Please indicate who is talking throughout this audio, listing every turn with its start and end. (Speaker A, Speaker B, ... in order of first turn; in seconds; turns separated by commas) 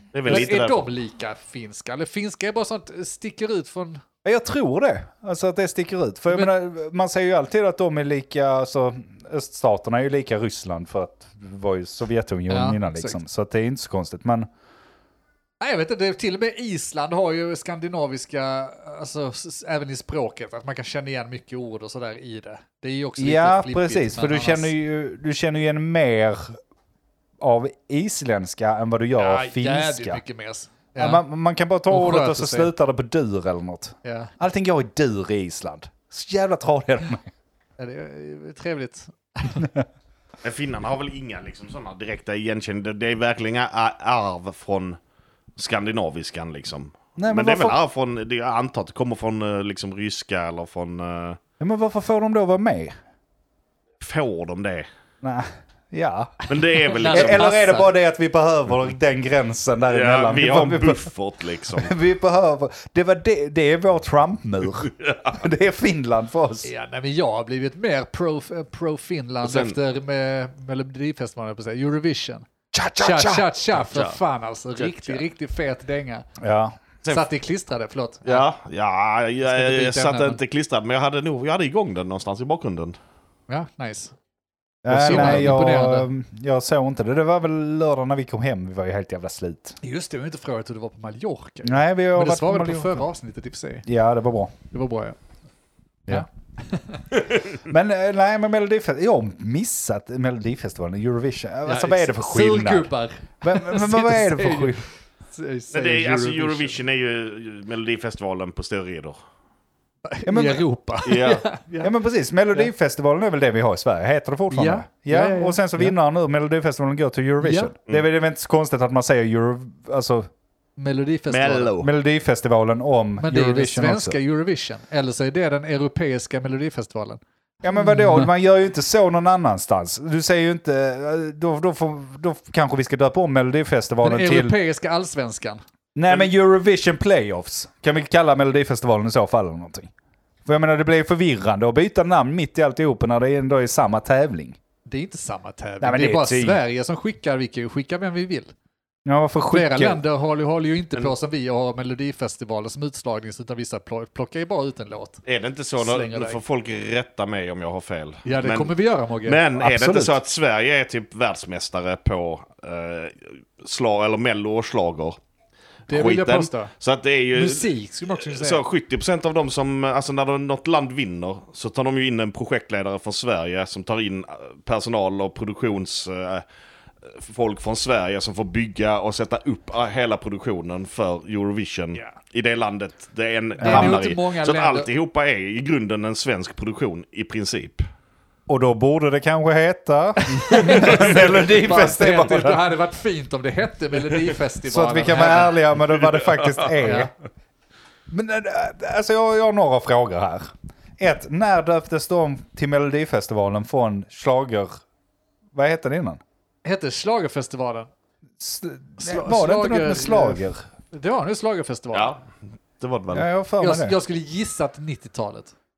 Speaker A: 0.1-0.8, Speaker B: 0.2-4.0, Speaker C: 4.2-14.5, Speaker B: 12.5-13.2, Speaker B: 15.6-24.7, Speaker C: 23.2-26.6, Speaker C: 27.4-30.2, Speaker B: 29.2-31.2, Speaker C: 31.0-37.3, Speaker B: 31.9-32.7, Speaker B: 34.0-34.3, Speaker B: 37.8-39.7, Speaker C: 39.6-39.8, Speaker A: 40.4-45.0, Speaker A: 45.6-51.4, Speaker C: 47.2-47.8, Speaker C: 51.6-52.9, Speaker A: 54.0-54.9, Speaker C: 55.2-56.4, Speaker A: 56.5-57.5, Speaker B: 56.9-57.9, Speaker C: 57.1-61.1, Speaker A: 59.9-61.9, Speaker C: 61.7-66.7, Speaker A: 65.0-65.3, Speaker B: 66.6-72.5, Speaker A: 69.4-69.8, Speaker C: 72.7-73.5, Speaker B: 73.0-76.2, Speaker A: 73.9-74.2, Speaker A: 74.8-75.2, Speaker C: 76.4-76.8, Speaker B: 77.1-78.5, Speaker A: 78.2-83.0, Speaker B: 79.4-80.4, Speaker B: 83.5-84.1, Speaker C: 84.8-89.8, Speaker B: 84.9-86.1, Speaker A: 85.0-85.5, Speaker B: 89.8-93.8, Speaker C: 91.6-93.0, Speaker C: 93.8-94.5, Speaker B: 94.7-95.2, Speaker B: 96.1-97.0, Speaker C: 97.6-102.9, Speaker B: 101.7-106.8, Speaker C: 103.4-104.8, Speaker A: 105.7-109.2, Speaker B: 110.0-111.9, Speaker C: 110.2-110.6, Speaker A: 111.0-111.4, Speaker C: 111.8-120.3, Speaker B: 114.5-115.9, Speaker B: 117.4-117.7, Speaker B: 120.8-121.7, Speaker A: 121.3-121.9, Speaker C: 121.8-124.2, Speaker B: 123.2-127.2, Speaker C: 127.6-134.5, Speaker B: 127.7-128.3, Speaker B: 134.0-135.6, Speaker C: 135.9-139.9, Speaker C: 140.4-144.6, Speaker B: 144.9-148.5, Speaker C: 145.8-146.6, Speaker C: 149.0-150.0, Speaker B: 149.5-155.2, Speaker A: 155.2-158.7, Speaker B: 155.8-156.4, Speaker B: 158.2-159.4, Speaker A: 159.2-165.2, Speaker C: 159.6-160.2, Speaker B: 165.9-166.7, Speaker A: 165.9-176.4, Speaker B: 167.3-168.6, Speaker A: 177.0-187.8, Speaker C: 183.6-184.0, Speaker B: 183.6-184.9, Speaker C: 188.5-192.6, Speaker B: 190.3-195.6, Speaker A: 190.6-191.1, Speaker C: 194.6-197.1, Speaker A: 196.0-196.8, Speaker B: 196.8-197.1, Speaker C: 198.1-204.8, Speaker C: 205.5-206.2, Speaker B: 206.6-207.9, Speaker C: 208.4-210.6, Speaker B: 209.0-212.1, Speaker A: 211.9-212.2, Speaker A: 212.8-213.3, Speaker C: 213.1-213.9, Speaker B: 213.6-215.5